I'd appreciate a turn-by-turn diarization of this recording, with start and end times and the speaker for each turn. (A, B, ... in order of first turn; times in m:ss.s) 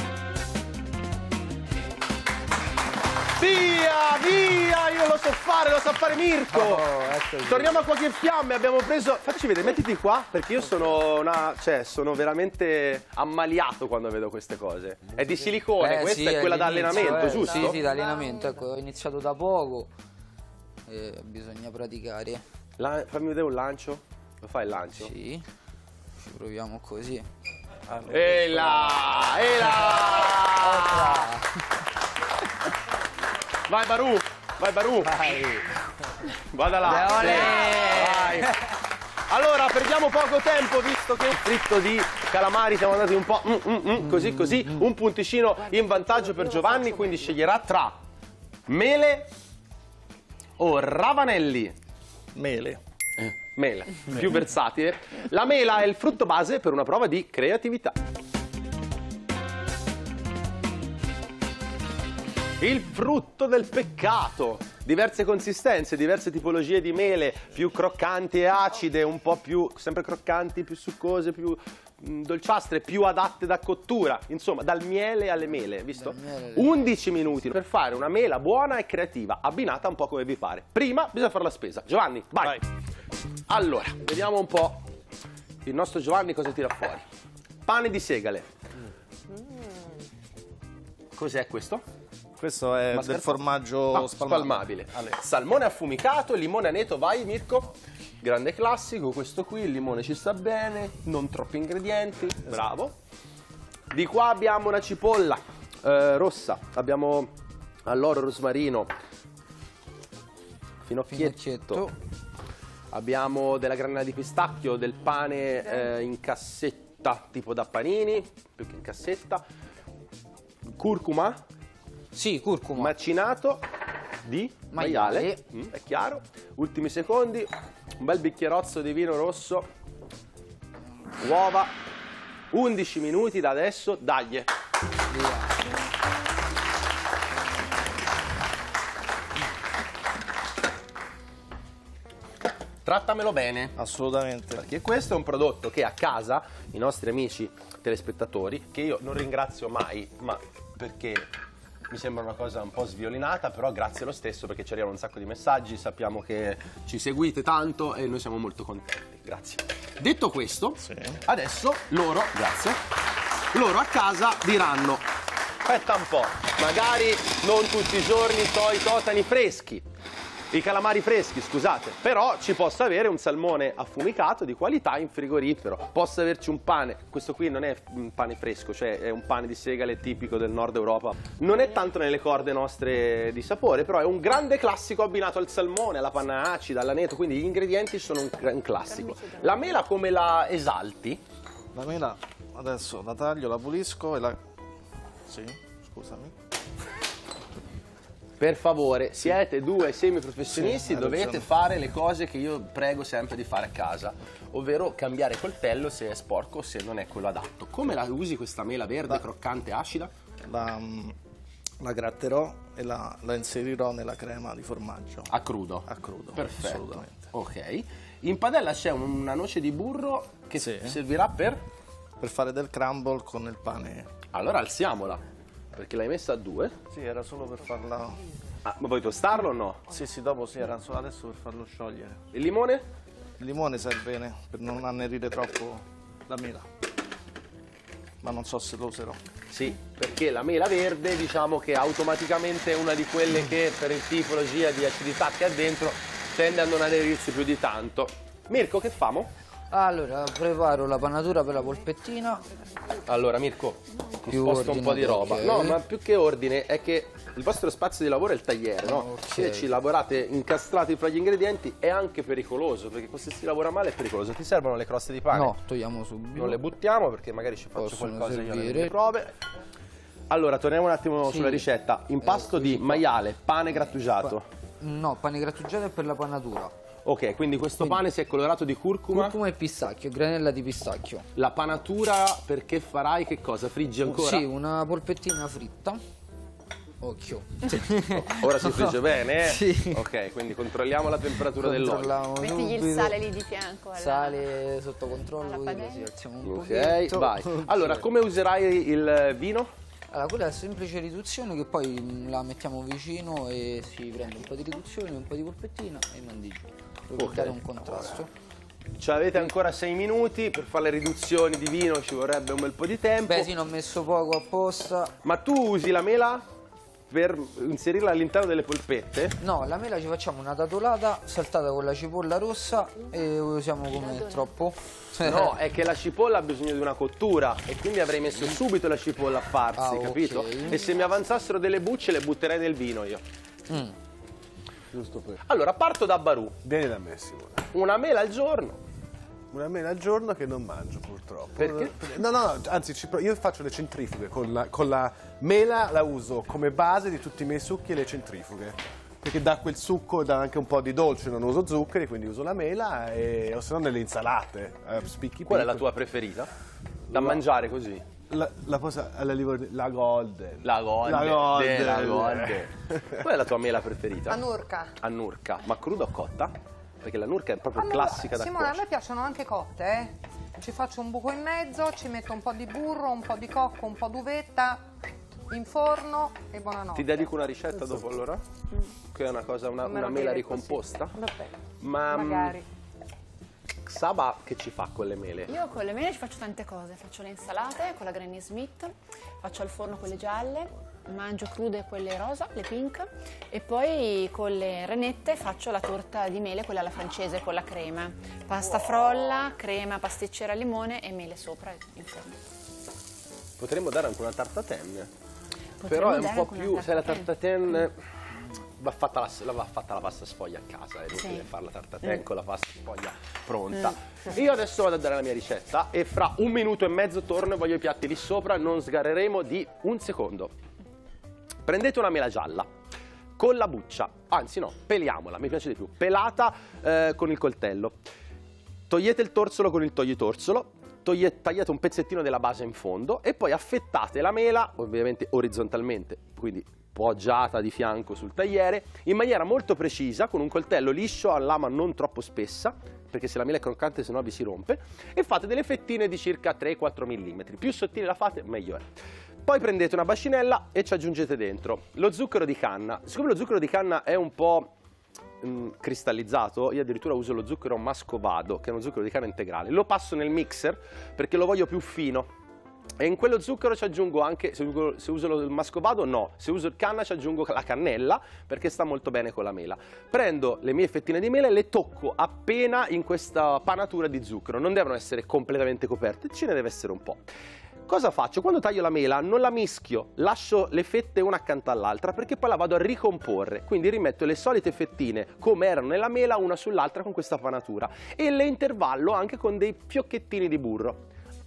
0:03.4-0:06.9 A
0:06.5-0:07.8 B
0:07.4-0:17.8 A
0:15.7-0:19.9 B
0:17.0-0:18.7 C
0:20.9-0:22.4 B
0:22.8-0:25.1 A
0:25.0-0:25.4 B
0:26.2-0:27.3 B
0:28.1-0:31.3 A
0:29.7-0:30.0 B
0:30.6-0:31.6 B
0:33.7-0:35.5 A
0:35.1-0:35.6 B
0:36.4-0:38.5 A
0:36.8-0:38.7 B
0:39.3-0:48.0 A
0:45.6-0:47.3 C
0:48.7-0:49.3 A
0:50.6-0:51.8 A
0:52.3-0:52.8 D
0:53.2-0:58.0 A
1:02.6-1:22.6 A
1:16.0-1:16.9 B
1:23.5-1:24.8 A
1:25.6-1:27.0 A
1:27.7-1:28.5 A
1:29.3-1:29.9 C
1:31.1-1:31.8 A
1:32.4-1:34.7 D
1:32.9-1:43.0 A
1:43.9-1:47.3 A
1:47.9-1:48.9 A
1:50.8-1:51.9 A
1:51.1-1:51.9 B
1:52.9-1:59.4 A
2:00.7-2:01.4 A
2:02.1-2:02.9 B
2:02.8-2:03.7 A
2:04.2-2:09.7 A
2:04.7-2:05.4 B
2:11.2-2:11.7 A
2:12.5-2:14.5 A
2:15.1-2:15.5 B
2:22.8-2:23.8 A
2:23.8-2:24.7 D
2:24.6-2:31.3 A
2:31.9-2:42.8 A
2:40.8-2:41.2 D
2:43.5-2:45.1 A
2:45.6-2:49.8 A
2:50.5-3:11.2 A
3:08.9-3:09.7 E
3:11.7-3:14.4 D
3:15.3-3:16.3 D
3:18.4-3:30.1 A
3:20.5-3:21.5 D
3:30.4-3:31.2 D
3:31.8-3:35.3 D
3:35.3-3:41.6 A
3:35.9-3:37.2 D
3:40.6-3:41.0 D
3:42.2-3:44.1 D
3:44.3-3:45.2 A
3:45.7-3:46.8 A
3:46.9-3:48.2 D
3:48.6-3:49.8 A
3:49.9-3:52.2 D
3:52.3-3:52.8 A
3:53.4-3:56.7 D
3:58.2-3:59.2 D
3:59.5-4:09.3 A
4:09.7-4:12.4 B
4:13.0-4:25.6 A
4:14.3-4:15.8 B
4:18.8-4:19.7 B
4:25.3-4:26.6 B
4:26.3-4:29.3 A
4:27.8-4:29.0 B
4:30.3-4:34.5 A
4:31.2-4:31.7 B
4:32.2-4:33.1 B
4:33.7-4:34.3 B
4:34.8-4:36.7 B
4:37.0-4:39.4 A
4:39.1-4:41.3 B
4:41.4-4:44.5 A
4:44.1-4:46.0 B
4:47.0-4:50.0 B
4:48.1-4:52.2 A
4:51.5-4:53.2 B
4:52.4-4:54.5 E
4:54.0-4:58.0 B
4:55.4-4:56.1 E
4:56.4-4:59.7 A
5:00.1-5:08.3 B
5:07.2-5:07.6 A
5:09.0-5:13.5 A
5:13.3-5:15.1 B
5:15.2-5:16.4 A
5:17.1-5:19.4 A
5:19.4-5:25.6 B
5:23.9-5:24.5 E
5:25.2-5:33.2 A
5:29.8-5:30.8 B
5:34.9-5:35.4 F
5:35.4-5:36.6 A
5:36.6-5:37.7 F
5:37.7-5:38.8 A
5:39.5-5:55.9 F
5:41.6-5:42.0 A
5:55.5-5:56.5 A
5:57.1-5:57.4 F
5:57.1-5:58.0 A
5:58.3-6:02.7 F
6:00.6-6:04.4 A
6:04.3-6:05.0 C
6:05.0-6:08.8 A
6:07.8-6:14.9 C
6:15.5-6:17.8 C
6:16.9-6:18.4 A
6:19.1-6:21.2 A
6:19.8-6:22.6 C
6:21.8-6:22.6 A
6:23.9-6:25.5 A
6:25.5-6:42.4 E
6:43.6-6:45.1 A
6:45.8-6:47.3 E
6:45.9-6:48.0 A
6:48.8-7:00.5 A
6:51.2-6:51.4 E
7:01.7-7:02.7 A
7:03.4-7:08.0 A
7:08.9-7:28.9 A
7:29.4-7:34.7 A
7:35.4-7:42.3 A
7:43.0-7:57.2 A
7:57.9-8:11.0 A